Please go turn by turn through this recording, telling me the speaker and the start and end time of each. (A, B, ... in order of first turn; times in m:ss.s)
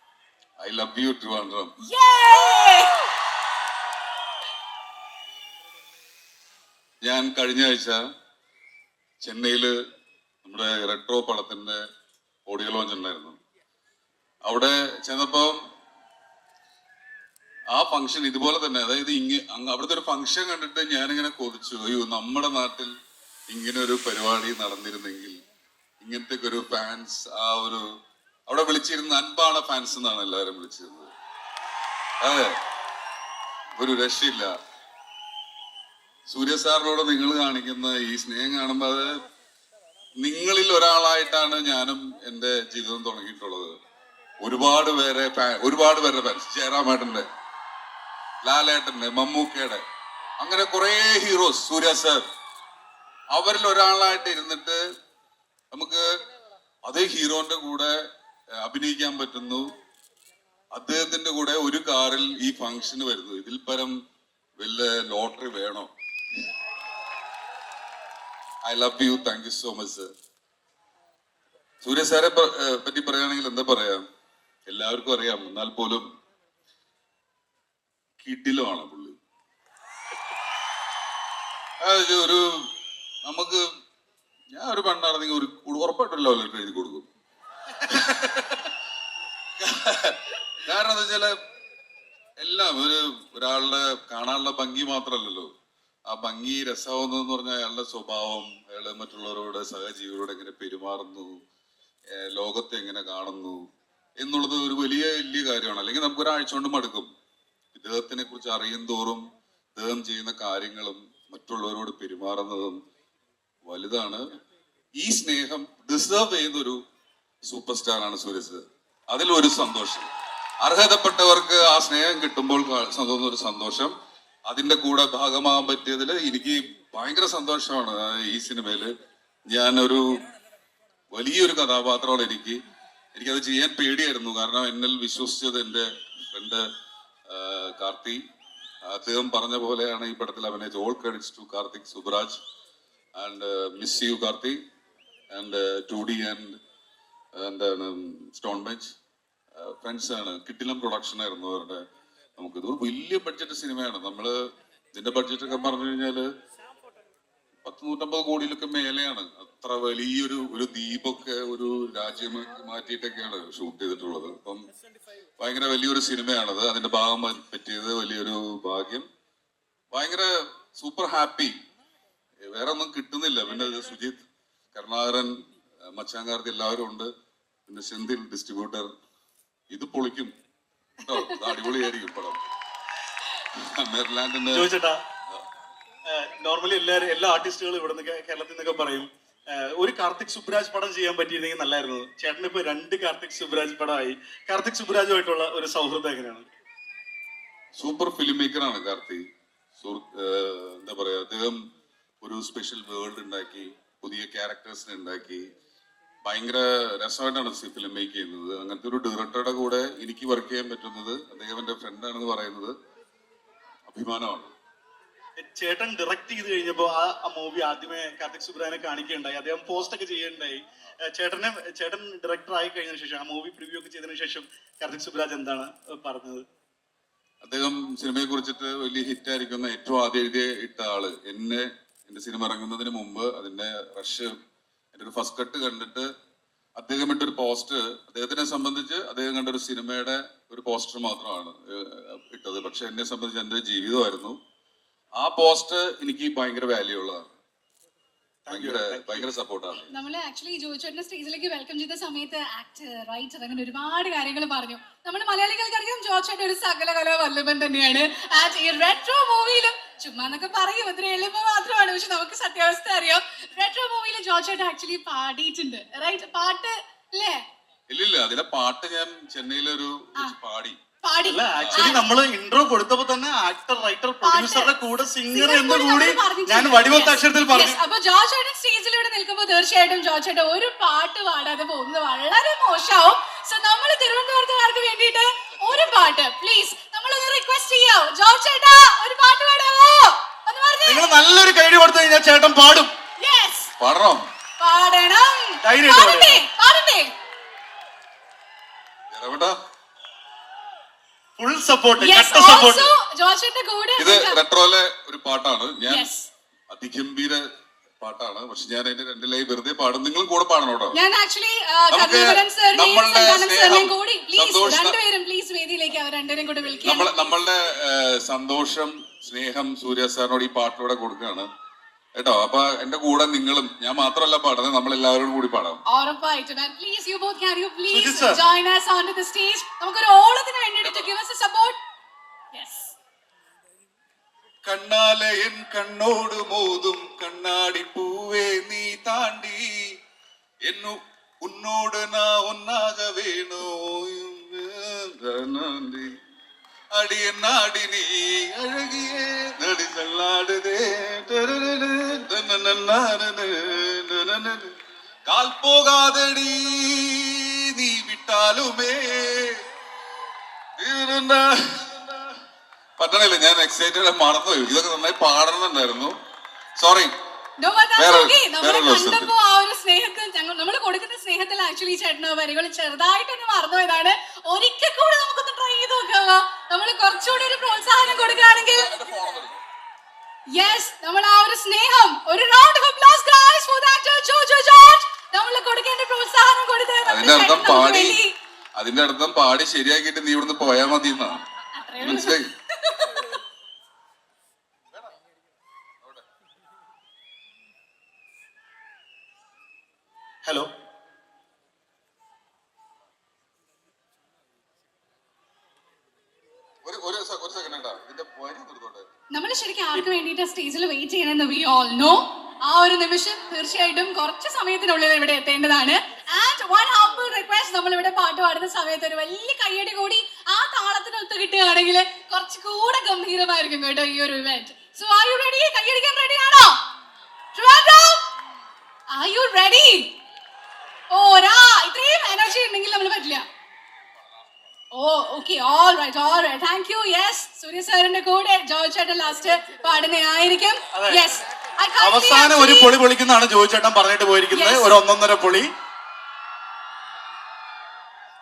0:00.6-0:01.7 A
0:01.8-0:03.0 B
0:07.0-0:08.0 A
0:09.2-0:09.7 A
0:10.4-0:11.8 A
0:12.5-0:13.4 A
0:14.4-0:15.6 A
0:17.7-0:22.9 A
0:23.5-0:25.4 A
0:26.0-0:27.9 A
0:28.5-0:31.1 A
0:32.2-0:32.6 A
0:33.8-0:34.5 A
0:36.3-0:39.2 A
0:40.2-0:43.8 A
0:44.4-0:47.3 A
0:48.4-0:49.8 A
0:50.4-0:52.2 A
0:53.3-0:54.8 A
0:55.7-0:56.1 A
0:56.9-0:58.0 A
0:58.6-0:59.7 A
1:00.7-1:04.0 A
1:04.6-1:05.9 A
1:08.6-1:10.1 A
1:11.8-1:14.0 A
1:14.7-1:16.0 A
1:18.2-1:19.2 A
1:21.8-1:22.6 A
1:23.2-1:23.6 A
1:24.5-1:27.1 A
1:27.8-1:28.7 A
1:29.6-1:31.4 A
1:32.4-1:35.5 A
1:36.1-1:41.4 A
1:42.1-1:43.6 A
1:44.2-1:47.1 A
1:47.7-1:52.8 A
1:53.7-1:54.3 A
1:55.0-1:56.8 A
1:57.4-2:00.1 A
2:00.6-2:03.9 A
2:04.5-2:08.9 A
2:09.5-2:10.3 A
2:11.1-2:12.6 A
2:13.2-2:16.7 A
2:17.3-2:18.2 A
2:18.8-2:22.4 A
2:23.2-2:24.6 A
2:25.3-2:26.6 A
2:27.4-2:28.9 A
2:29.6-2:31.8 A
2:32.4-2:34.4 A
2:34.9-2:36.3 A
2:37.6-2:44.7 A
2:45.4-2:49.1 A
2:49.9-2:51.6 A
2:52.4-2:57.1 A
2:57.7-2:58.9 A
2:59.7-3:00.3 A
3:01.0-3:02.4 A
3:03.5-3:04.7 A
3:04.5-3:05.0 C
3:06.1-3:16.5 C
3:17.8-3:19.3 A
3:19.8-3:21.6 A
3:22.2-3:25.5 A
3:26.2-3:32.7 A
3:33.9-3:34.5 A
3:35.4-3:46.5 C
3:47.4-3:54.3 A
3:55.0-3:56.1 A
3:56.8-4:04.4 A
4:05.2-4:07.2 A
4:08.5-4:09.9 A
4:08.6-4:09.3 C
4:09.8-4:27.4 B
4:27.9-4:30.8 A
4:31.0-4:32.0 B
4:31.2-4:37.8 C
4:31.6-4:32.0 A
4:34.2-4:34.7 B
4:35.3-4:51.1 B
4:50.8-4:52.9 C
4:53.2-4:53.7 B
4:53.8-4:54.2 A
4:54.6-4:57.1 B
4:55.6-4:56.4 C
4:59.1-4:59.6 A
5:01.4-5:02.9 C
5:02.0-5:04.4 B
5:04.0-5:06.1 A
5:05.9-5:06.3 B
5:06.7-5:07.4 A
5:08.0-5:11.0 A
5:10.9-5:17.1 B
5:11.9-5:15.0 A
5:16.8-5:21.5 A
5:22.2-5:25.8 A
5:25.9-5:31.8 B
5:27.9-5:28.4 C
5:32.6-5:33.0 B
5:34.6-5:39.8 A
5:40.7-5:46.2 A
5:46.9-5:54.7 A
5:55.3-5:59.6 A
6:00.8-6:02.3 A
6:03.0-6:06.2 A
6:06.8-6:07.1 A
6:07.6-6:19.0 B
6:08.0-6:09.3 A
6:18.5-6:19.6 A
6:20.5-6:28.4 B
6:27.1-6:28.2 A
6:28.8-6:31.4 A
6:31.7-6:33.2 B
6:32.0-6:32.5 A
6:40.4-6:40.7 C
6:46.8-6:49.0 A
6:49.3-7:06.8 B
7:07.6-7:08.3 B
7:09.1-7:10.1 B
7:11.1-7:13.5 B
7:14.9-7:23.0 B
7:20.9-7:21.2 C
7:22.0-7:25.7 C
7:24.5-7:24.9 B